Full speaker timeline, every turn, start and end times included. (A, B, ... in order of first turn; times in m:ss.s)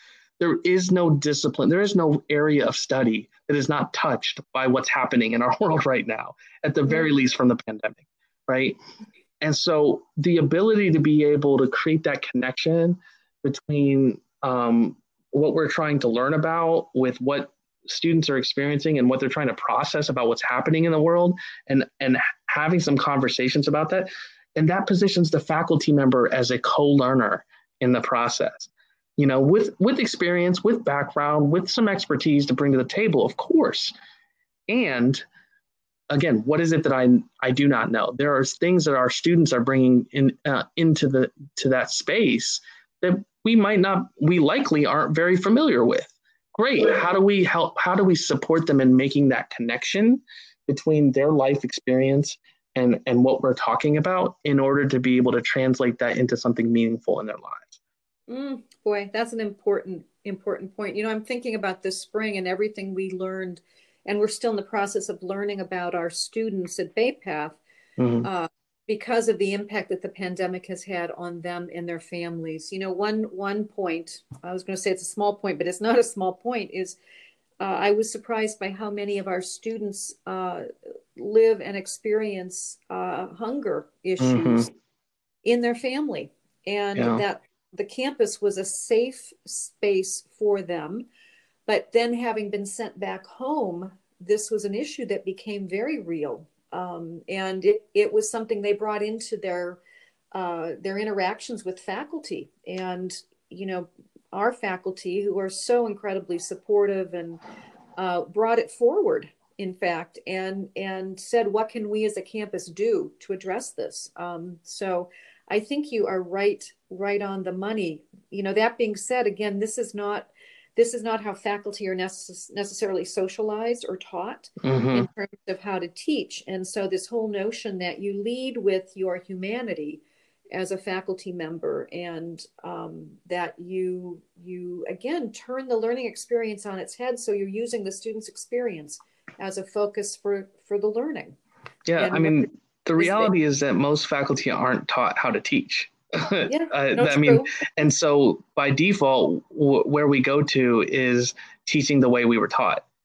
0:00.4-0:08.8 A
0:09.4-0:33.9 A
0:34.7-0:35.2 A
0:36.1-0:57.8 A
0:58.3-1:07.6 B
1:08.0-1:08.3 A
1:08.2-1:17.0 B
1:17.6-1:24.7 B
1:24.2-1:24.7 A
1:25.4-1:31.0 B
1:27.0-1:27.2 A
1:31.7-1:39.8 B
1:40.3-1:47.4 B
1:48.0-2:21.4 B
2:04.6-2:05.1 A
2:21.9-2:32.8 A
2:22.0-2:23.3 B
2:26.5-2:27.5 B